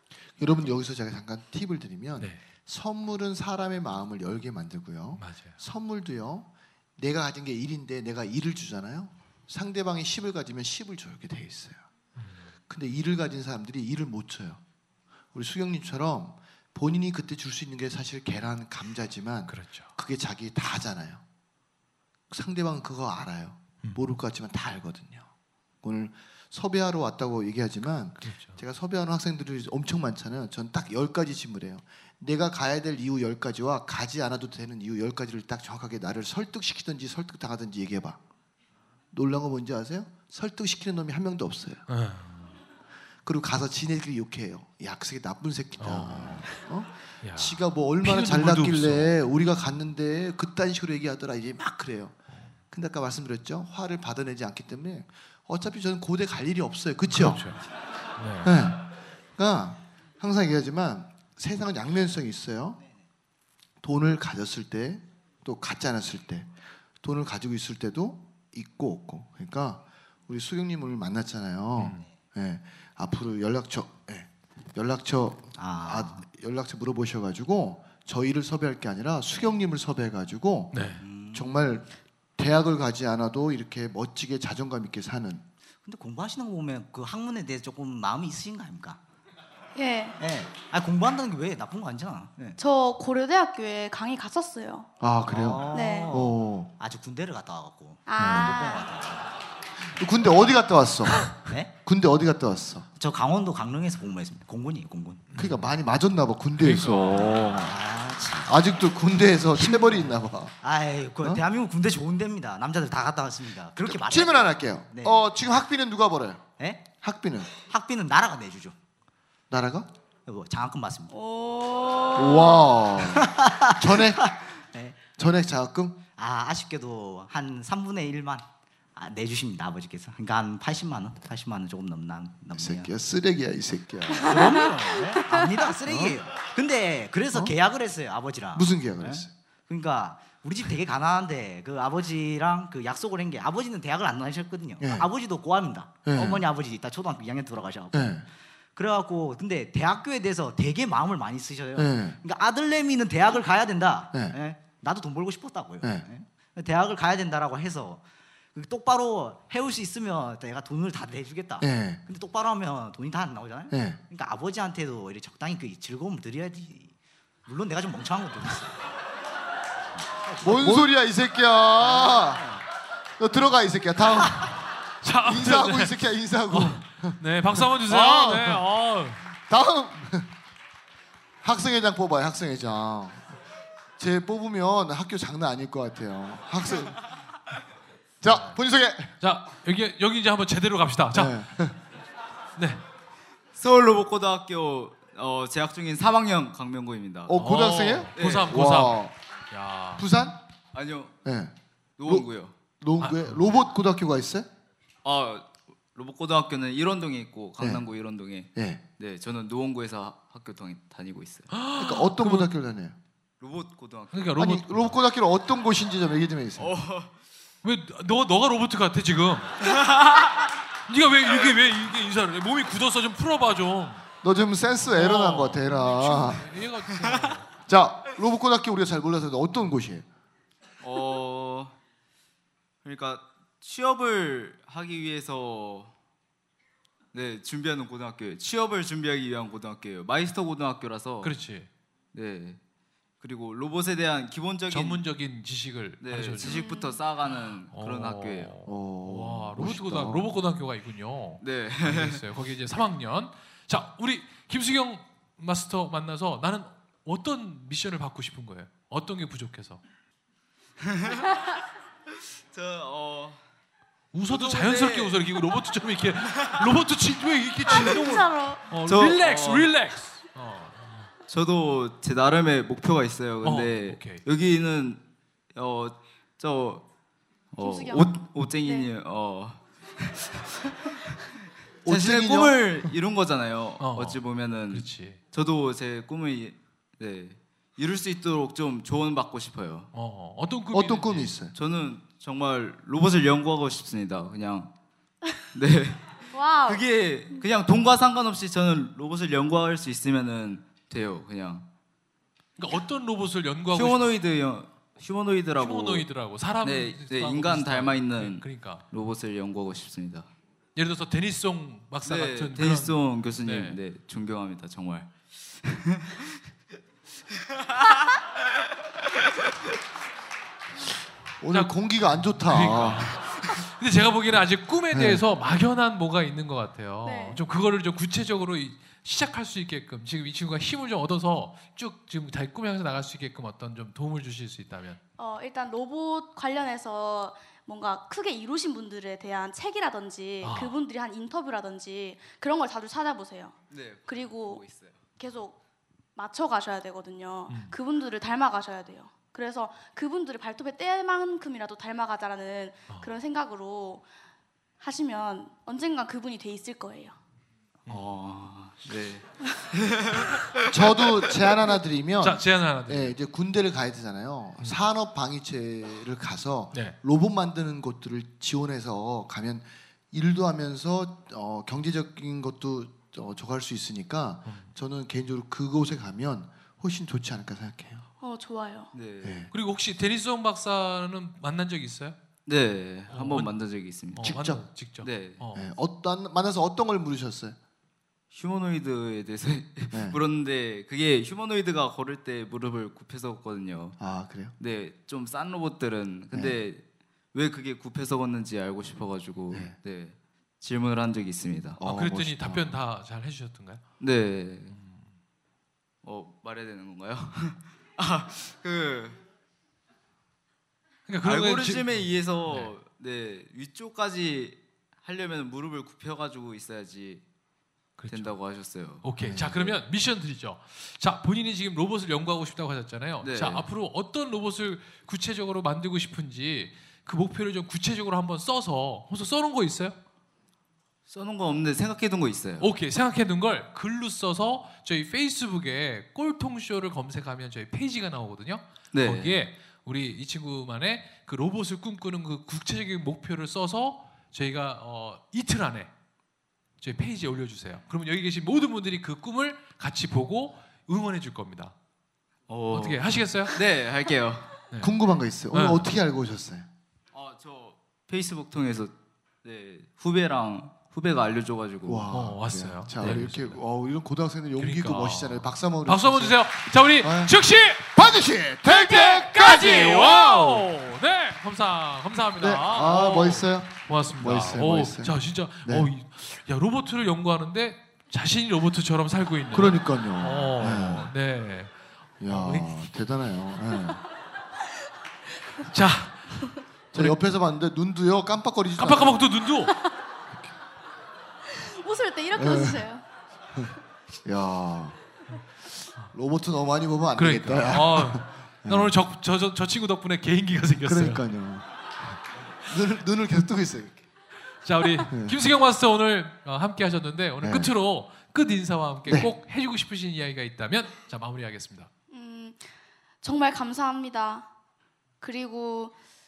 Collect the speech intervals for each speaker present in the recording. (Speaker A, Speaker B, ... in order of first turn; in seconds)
Speaker A: 0.4-11.8, 12.7-14.6, 15.3-21.2, 22.3-25.3, 25.8-38.2, 39.1-41.8, 43.2-52.1, 52.7-57.4, 58.4-62.8, 63.8-80.8, 81.3-85.4, 95.0-96.7, 98.2-98.7, 99.8-102.9, 105.3-107.8, 108.4-110.5, 113.8-116.5, 117.0-117.5, 119.5-119.9, 122.2-124.3, 125.2-126.0, 132.5-134.7, 135.8-136.2, 138.5-139.3, 144.8-145.1, 146.1-146.4, 147.9-148.2, 151.7-152.2, 155.8-156.1, 161.6-162.0, 163.7-164.0, 170.4-172.4, 173.2-174.6, 175.2-178.6, 179.4-180.3, 181.4-183.4, 184.0-187.0, 188.2-189.1, 191.1-191.8, 197.3-199.1, 200.0-200.4, 201.2-202.3, 202.8-204.5, 207.6-207.8, 208.5-208.8, 211.8-212.9, 214.3-216.7, 224.2-226.4, 227.7-230.1, 248.7-250.3, 281.8-282.6, 290.7-291.5, 321.4-323.2, 324.9-325.2, 360.7-378.0, 379.2-379.5, 384.2-384.6, 385.5-387.6, 389.9-390.2, 394.0-394.5, 396.3-396.6, 401.8-402.8, 419.2-419.7, 454.8-456.7, 461.9-466.4, 467.0-467.4, 467.9-470.7, 472.4-475.9, 479.5-481.1, 482.2-484.0, 486.9-489.3, 492.3-492.9, 493.5-495.0, 496.1-498.9, 500.8-504.0, 505.1-505.4, 507.4-507.7
Speaker B: 5.2-5.5, 12.2-12.5, 19.5-19.9, 28.2-28.6, 41.9-42.5, 45.8-46.5, 47.2-49.1, 57.1-57.6, 58.2-58.5, 71.8-72.0, 80.7-81.0, 105.3-105.6, 106.6-107.7, 175.0-175.9, 176.5-179.2, 189.2-191.4, 192.6-192.8, 197.3-200.0, 203.0-203.6, 211.5-212.5, 214.1-215.0, 217.6-219.7, 220.9-224.0, 224.9-227.5, 241.2-241.7, 244.7-246.6, 247.4-259.8, 264.1-271.1, 273.4-274.2, 283.8-285.2, 289.9-291.3, 302.6-304.1, 305.6-308.8, 310.8-313.8, 321.5-335.0, 340.4-340.7, 347.5-347.7, 362.2-363.1, 374.4-374.7, 379.5-382.1, 383.1-383.5, 384.1-385.7, 401.8-403.8, 404.7-405.0, 411.1-412.7, 418.0-418.3, 419.0-429.9, 432.6-445.9, 446.8-451.7, 452.7-453.6, 455.5-455.9, 462.1-463.6, 464.6-467.9, 468.6-481.7, 482.2-482.7, 485.6-487.2, 488.8-489.8, 497.2-501.2, 504.6-511.9
Speaker C: 75.6-76.2, 81.0-81.5, 85.8-89.0, 90.2-92.6, 95.2-99.3, 101.4-101.7, 103.0-105.3, 107.1-108.5, 109.6-115.2, 116.6-116.9, 117.6-118.8, 120.2-121.1, 123.0-125.0, 126.2-132.9, 134.2-148.1, 148.8-158.0, 158.5-166.9, 167.4-168.8, 170.2-170.9, 171.8-172.6
Speaker D: 89.8-90.2, 92.6-94.9, 95.7-96.1, 98.0-98.9, 121.1-122.8, 134.4-135.4, 246.4-247.0, 267.7-268.6, 277.6-278.9, 296.3-296.8, 327.0-327.4, 335.2-344.6, 345.2-345.6, 346.1-354.1, 354.8-357.1, 378.2-378.9, 491.4-493.0, 512.1-512.7, 513.2-514.5, 515.2-516.0
Speaker E: 193.5-197.4, 198.2-198.6, 200.7-201.2, 202.0-202.5, 205.0-211.5, 213.4-214.3, 216.6-217.1, 219.6-220.4, 226.9-227.3, 230.8-231.7, 232.8-235.9, 237.1-241.3, 242.1-242.6, 243.2-245.0, 246.0-248.5, 251.4-252.2, 260.8-261.4, 262.5-263.4, 264.3-265.2, 266.3-266.7, 268.9-269.7, 271.3-275.0, 275.5-276.8, 277.5-281.2, 281.9-289.9, 291.5-294.7, 295.5-301.6, 303.7-306.1, 306.6-310.3, 312.0-316.4, 317.3-319.5, 343.7-345.0, 357.9-361.3, 378.9-379.4, 382.4-384.4, 385.0-385.4, 388.3-394.0, 394.6-401.8, 404.0-404.7, 406.0-409.2, 411.2-417.2, 418.1-419.1, 423.2-423.6, 431.1-432.7, 438.9-439.4, 452.5-454.7, 457.1-462.1